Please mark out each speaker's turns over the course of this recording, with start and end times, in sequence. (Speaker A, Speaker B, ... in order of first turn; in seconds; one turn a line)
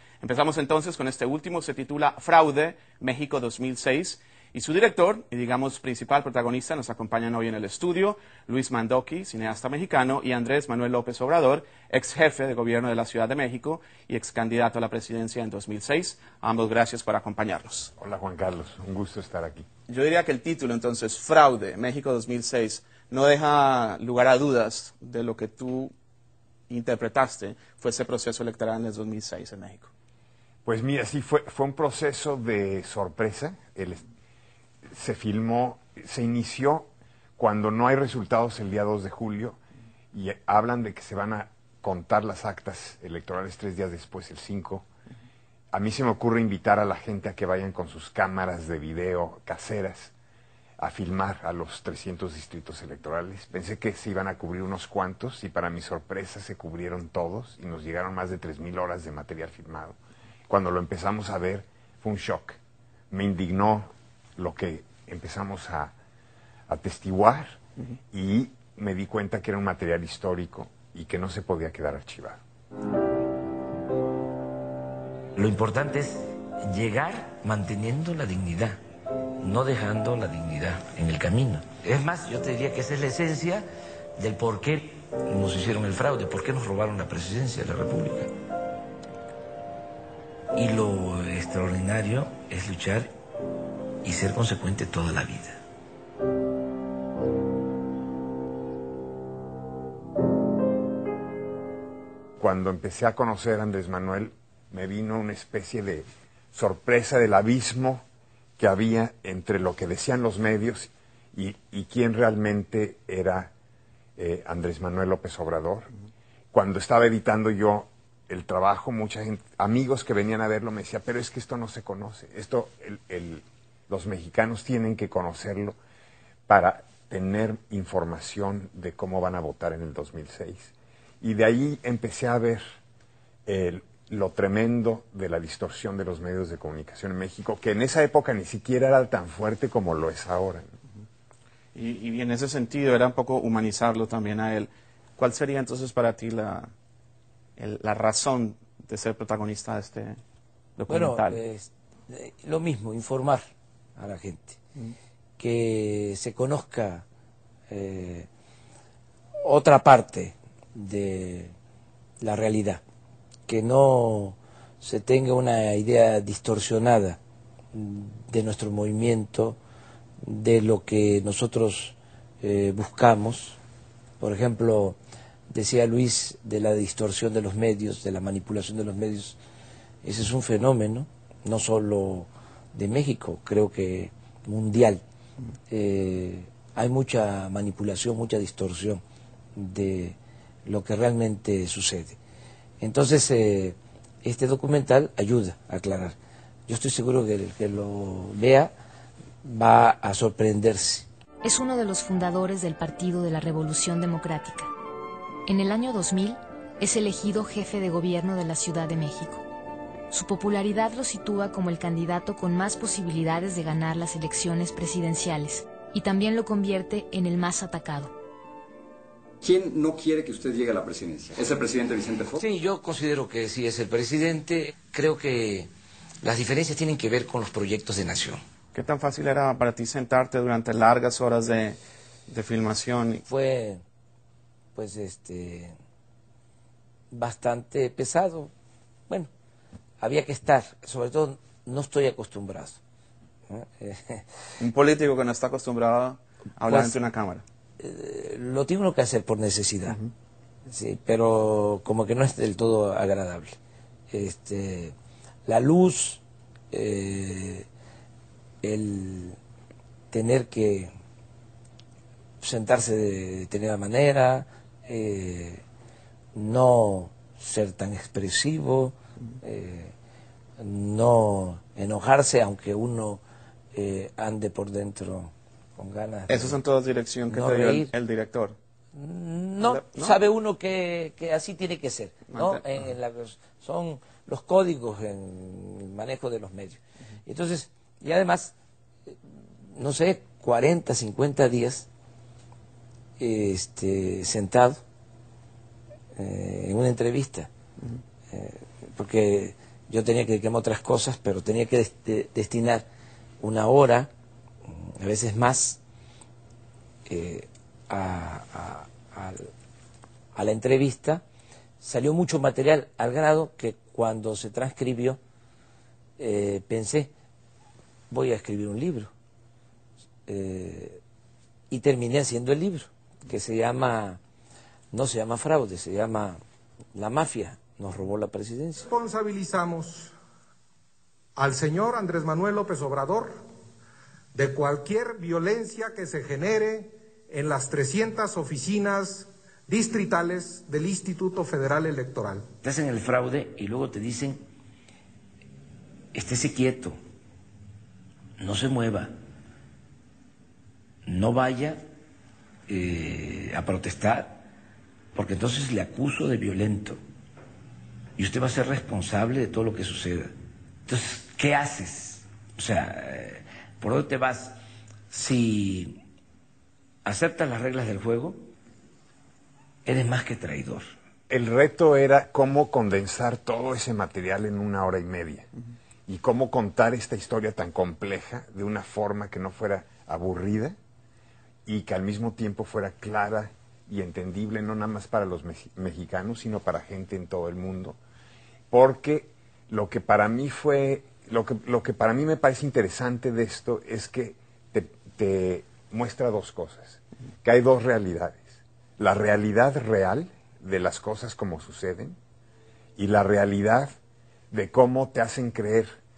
Speaker A: 0.2-17.9
Speaker B: 18.0-19.6
Speaker A: 19.9-25.9
Speaker A: 26.7-29.9
Speaker B: 30.6-34.0
Speaker B: 34.9-39.6
Speaker B: 40.1-44.9
Speaker B: 45.7-50.1
Speaker B: 50.8-60.0
Speaker B: 60.5-62.6
Speaker B: 63.1-65.9
Speaker B: 66.7-67.6
Speaker B: 68.1-72.4
Speaker C: 75.3-78.8
Speaker C: 79.4-83.6
Speaker C: 84.2-88.3
Speaker C: 90.5-93.1
Speaker C: 94.0-95.6
Speaker B: 102.4-108.0
Speaker B: 108.6-113.5
Speaker B: 114.2-115.9
Speaker B: 116.5-125.8
Speaker B: 126.5-132.6
Speaker B: 133.4-140.7
Speaker A: 141.7-146.7
Speaker A: 147.6-150.2
Speaker A: 150.8-151.4
Speaker C: 150.9-154.6
Speaker C: 155.4-157.0
Speaker C: 157.7-158.3
Speaker C: 159.4-161.5
Speaker C: 162.2-162.8
Speaker C: 163.5-167.2
Speaker C: 167.7-169.6
Speaker C: 170.2-173.6
Speaker C: 174.2-175.0
Speaker C: 175.5-179.4
Speaker C: 180.0-185.0
Speaker C: 185.7-189.0
Speaker C: 189.5-192.2
Speaker C: 192.8-196.2
Speaker C: 196.7-198.7
Speaker C: 199.4-201.1
Speaker D: 201.4-204.7
Speaker D: 205.5-209.4
Speaker D: 210.1-218.1
Speaker E: 219.4-222.4
Speaker C: 222.3-225.7
Speaker C: 226.2-228.4
Speaker A: 228.7-233.2
Speaker C: 233.2-233.8
Speaker C: 234.7-235.7
Speaker C: 237.1-238.5
Speaker C: 240.0-242.8
Speaker C: 243.5-244.2
Speaker A: 244.6-247.4
Speaker C: 246.7-247.0
Speaker C: 247.8-250.0
Speaker C: 250.7-253.6
Speaker C: 254.1-254.9
Speaker C: 255.4-257.7
Speaker C: 258.6-259.4
Speaker C: 260.1-260.9
Speaker C: 262.4-265.6
Speaker C: 266.3-269.9
Speaker C: 270.6-273.2
Speaker C: 273.7-276.6
Speaker A: 276.3-278.6
Speaker C: 277.3-277.9
Speaker C: 278.9-288.5
Speaker A: 279.6-280.1
Speaker A: 282.3-282.8
Speaker C: 289.7-291.9
Speaker C: 293.2-294.8
Speaker C: 296.1-297.5
Speaker C: 298.3-302.9
Speaker C: 303.4-304.1
Speaker C: 304.7-305.8
Speaker C: 307.1-309.5
Speaker C: 310.3-311.2
Speaker C: 311.8-315.2
Speaker C: 316.2-317.1
Speaker C: 318.1-319.1
Speaker C: 320.3-321.0
Speaker C: 321.7-324.2
Speaker C: 324.9-326.4
Speaker C: 326.9-328.9
Speaker F: 328.9-330.1
Speaker F: 331.4-333.4
Speaker F: 334.3-342.4
Speaker C: 342.6-344.4
Speaker C: 346.1-347.0
Speaker C: 348.4-349.1
Speaker C: 351.1-351.8
Speaker C: 352.7-354.4
Speaker C: 355.1-357.0
Speaker C: 358.2-360.3
Speaker C: 360.9-364.5
Speaker C: 365.1-366.0
Speaker C: 367.0-368.4
Speaker C: 369.8-370.9
Speaker B: 371.3-375.5
Speaker B: 376.1-380.8
Speaker B: 381.6-388.0
Speaker B: 388.7-402.2
Speaker B: 403.0-403.9
Speaker B: 404.5-406.0